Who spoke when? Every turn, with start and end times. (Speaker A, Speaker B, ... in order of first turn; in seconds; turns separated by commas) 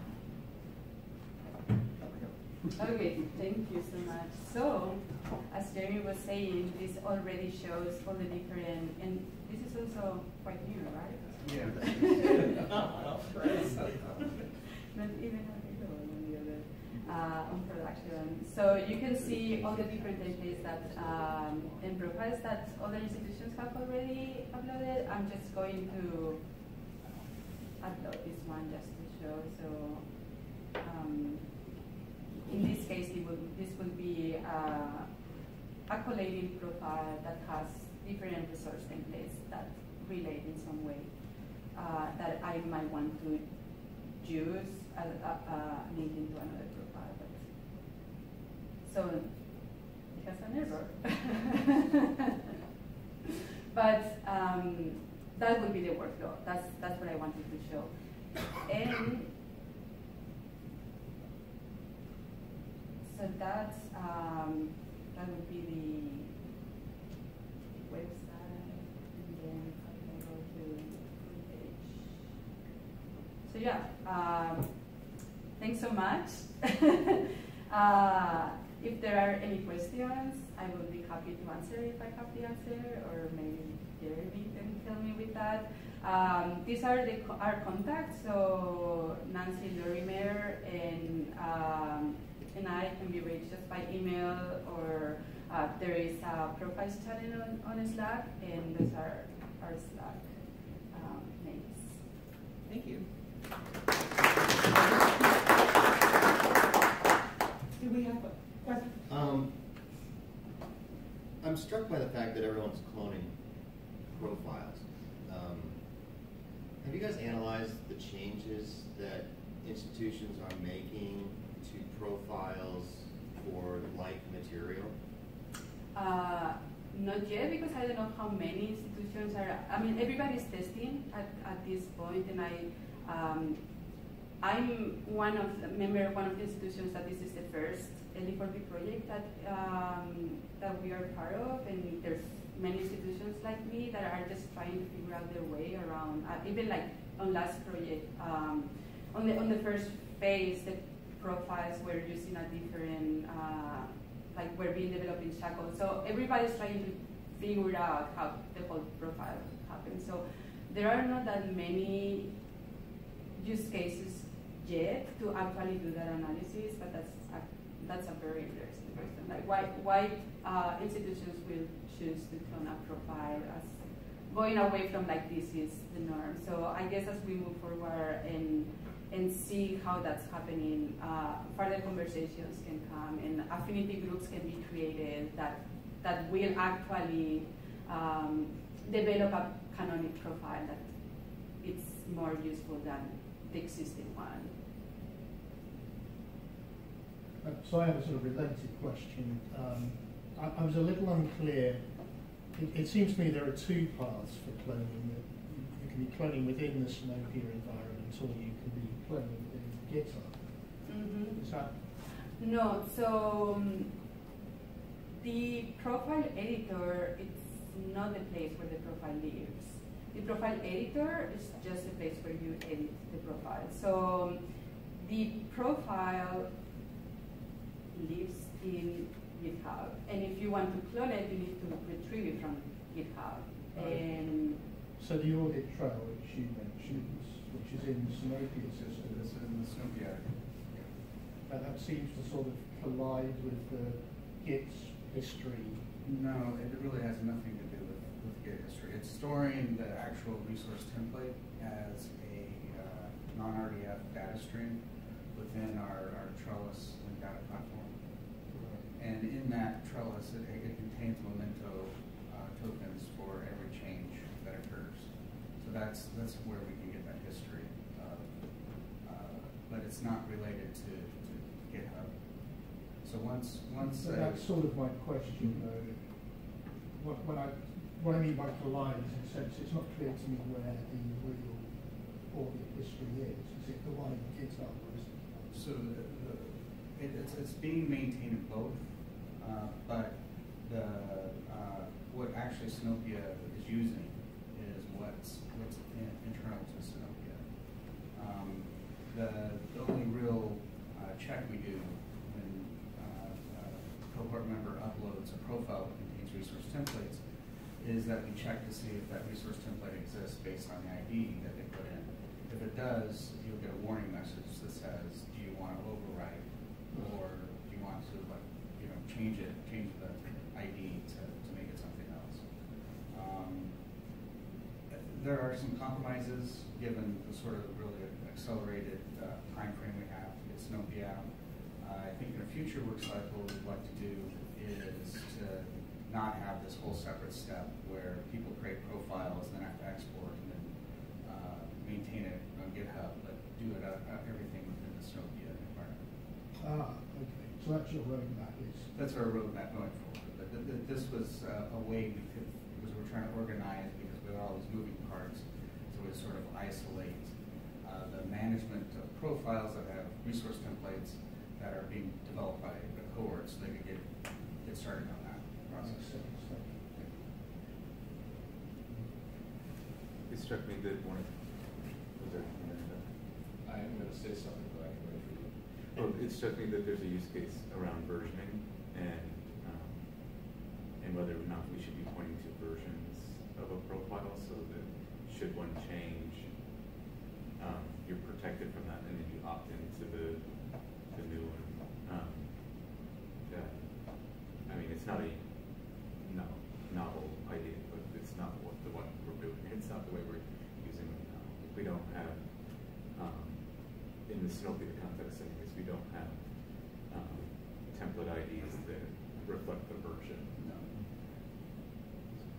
Speaker A: 2.0-2.8, Speaker B: 2.7-12.6, Speaker A: 11.4-12.9, Speaker C: 12.5-14.1, Speaker A: 13.7-14.2, Speaker B: 14.9-26.4, Speaker A: 19.5-20.2, Speaker A: 20.8-21.2, Speaker B: 27.8-30.0, Speaker B: 30.8-31.5, Speaker B: 32.5-35.1, Speaker B: 35.9-41.1, Speaker B: 41.7-43.5, Speaker B: 44.1-47.5, Speaker B: 48.8-52.3, Speaker B: 53.7-59.3, Speaker B: 63.0-66.3, Speaker B: 67.8-72.2, Speaker B: 73.5-75.0, Speaker B: 75.6-100.3, Speaker B: 100.9-102.0, Speaker C: 102.7-103.1, Speaker C: 107.8-109.0, Speaker D: 109.0-109.5, Speaker D: 111.4-113.4, Speaker D: 114.1-115.8, Speaker D: 116.8-124.9, Speaker B: 125.9-133.6, Speaker B: 134.4-162.3, Speaker B: 163.3-190.9, Speaker B: 191.5-194.5, Speaker E: 197.4-201.8, Speaker E: 202.5-210.4, Speaker B: 210.8-211.4, Speaker E: 211.3-211.7, Speaker B: 212.0-213.9, Speaker B: 215.1-224.4, Speaker B: 224.9-226.5, Speaker B: 227.9-234.6, Speaker E: 233.7-234.0, Speaker E: 235.0-239.2, Speaker A: 238.6-240.9, Speaker E: 241.5-245.8, Speaker A: 246.0-254.8, Speaker A: 255.3-257.9, Speaker A: 258.9-274.5, Speaker E: 273.9-276.0, Speaker E: 277.0-285.6, Speaker A: 285.5-307.2, Speaker A: 307.8-323.8, Speaker A: 324.9-346.0, Speaker E: 346.6-348.9, Speaker A: 348.9-366.2, Speaker E: 365.7-366.8, Speaker F: 370.2-373.1, Speaker G: 373.6-376.1, Speaker F: 375.9-386.8, Speaker F: 387.6-411.0